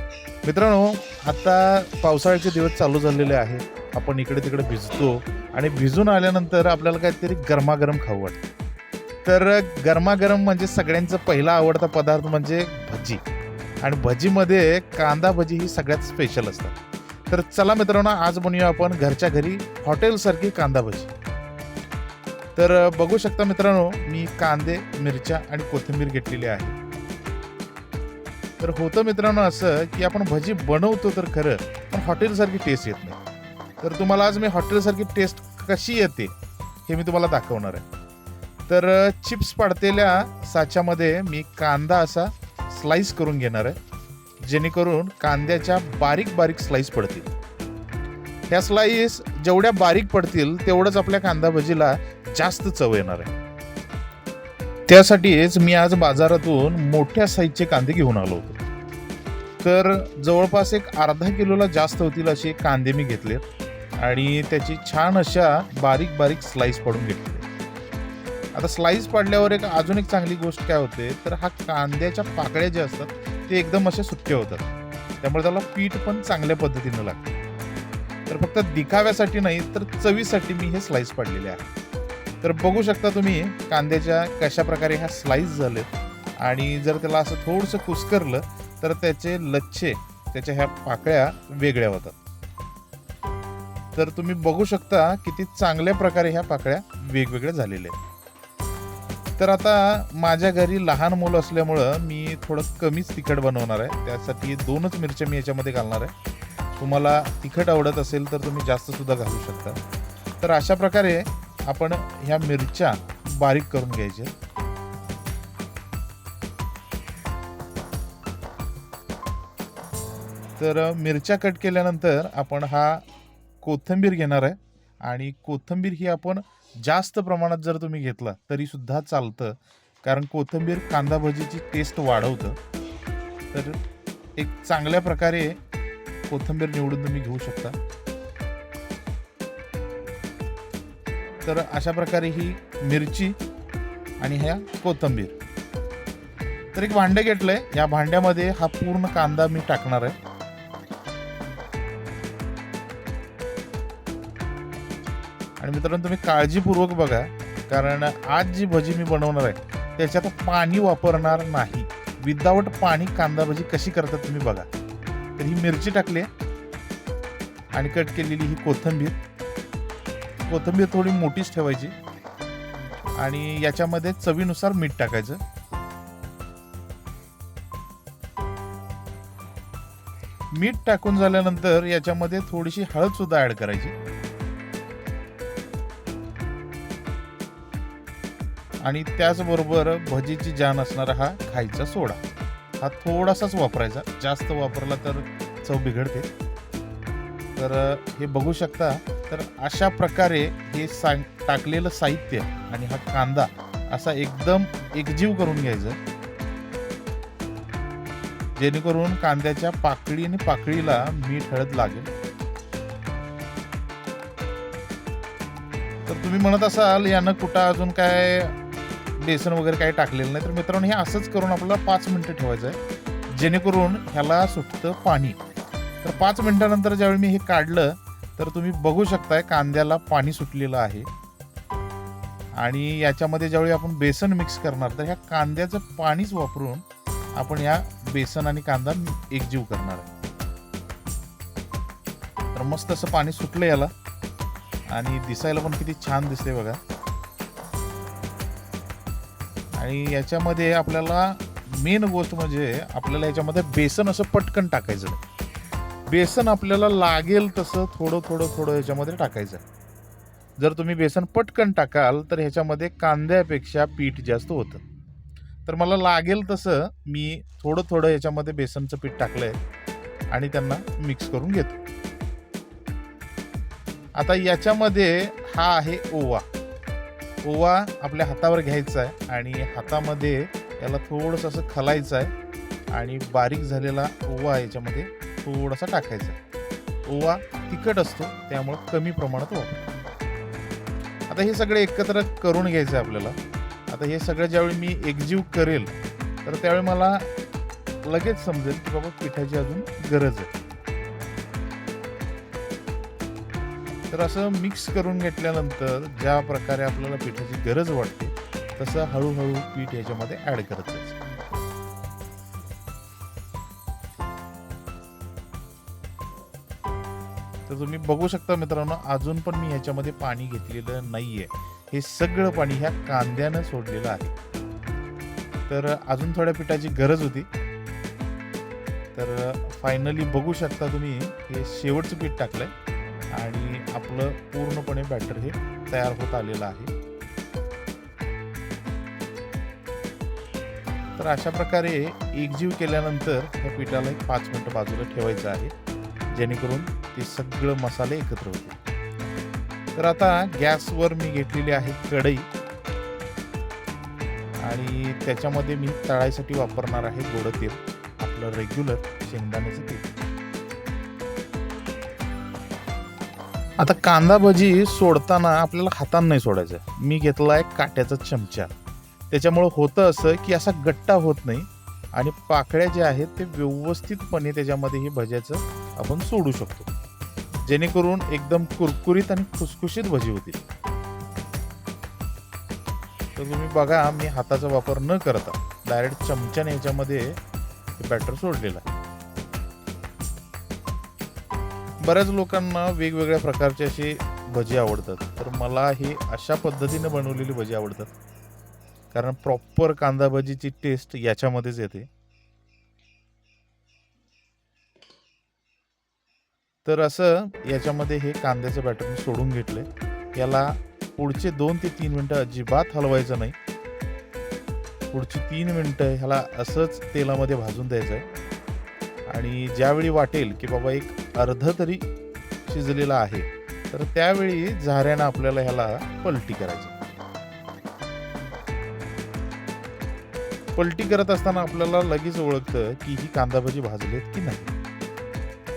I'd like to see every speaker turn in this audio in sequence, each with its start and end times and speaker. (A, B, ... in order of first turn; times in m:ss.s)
0:00.4-0:08.4 A
0:09.2-0:13.2 A
0:13.8-0:21.1 A
0:22.6-0:26.8 A
0:28.6-0:33.2 A
0:33.8-0:37.8 A
0:38.7-0:43.8 A
0:44.4-0:47.3 A
0:48.5-0:53.3 A
0:54.9-0:58.6 A
0:59.6-1:03.4 A
1:04.0-1:07.5 A
1:08.5-1:14.7 A
1:15.2-1:17.3 A
1:18.3-1:21.6 A
1:22.4-1:25.9 A
1:26.4-1:32.2 A
1:33.9-1:38.0 A
1:39.4-1:46.1 A
1:46.8-1:49.8 A
1:50.4-1:54.3 A
2:00.6-2:03.0 A
2:03.6-2:12.6 A
2:13.5-2:13.8 A
2:14.4-2:15.6 A
2:16.3-2:17.8 A
2:21.4-2:23.4 A
2:24.2-2:25.3 A
2:26.7-2:30.2 A
2:35.6-2:44.7 A
2:45.4-2:46.3 A
2:47.7-2:49.2 A
2:50.4-2:51.9 A
2:53.2-2:55.4 A
3:00.5-3:03.9 A
3:08.8-3:12.2 A
3:12.8-3:16.3 A
3:17.6-3:26.0 A
3:28.6-3:32.1 A
3:36.1-3:38.6 A
3:39.2-3:42.8 A
3:43.3-3:45.4 A
3:46.0-3:51.1 A
3:52.6-4:00.1 A
4:02.5-4:03.9 A
4:04.9-4:06.8 A
4:09.8-4:15.2 A
4:16.0-4:19.6 A
4:20.6-4:24.8 A
4:25.6-4:29.6 A
4:30.3-4:31.8 A
4:34.1-4:36.5 A
4:37.4-4:42.3 A
4:42.9-4:46.4 A
4:47.0-4:49.9 A
4:51.3-4:55.9 A
4:56.4-4:57.3 A
4:58.0-5:00.5 A
5:04.1-5:11.2 A
5:17.7-5:24.3 A
5:25.7-5:27.5 A
5:29.1-5:32.7 A
5:33.3-5:36.9 A
5:41.2-5:45.7 A
5:46.3-5:48.8 A
5:49.9-5:52.5 A
5:54.6-6:00.1 A
6:03.8-6:08.7 A
6:09.3-6:16.9 A
6:17.6-6:20.6 A
6:23.3-6:27.4 A
6:28.0-6:28.8 A
6:32.0-6:38.1 A
6:39.1-6:42.1 A
6:46.8-6:53.6 A
6:55.1-6:58.2 A
6:59.3-7:02.0 A
7:02.6-7:07.0 A
7:10.7-7:14.7 A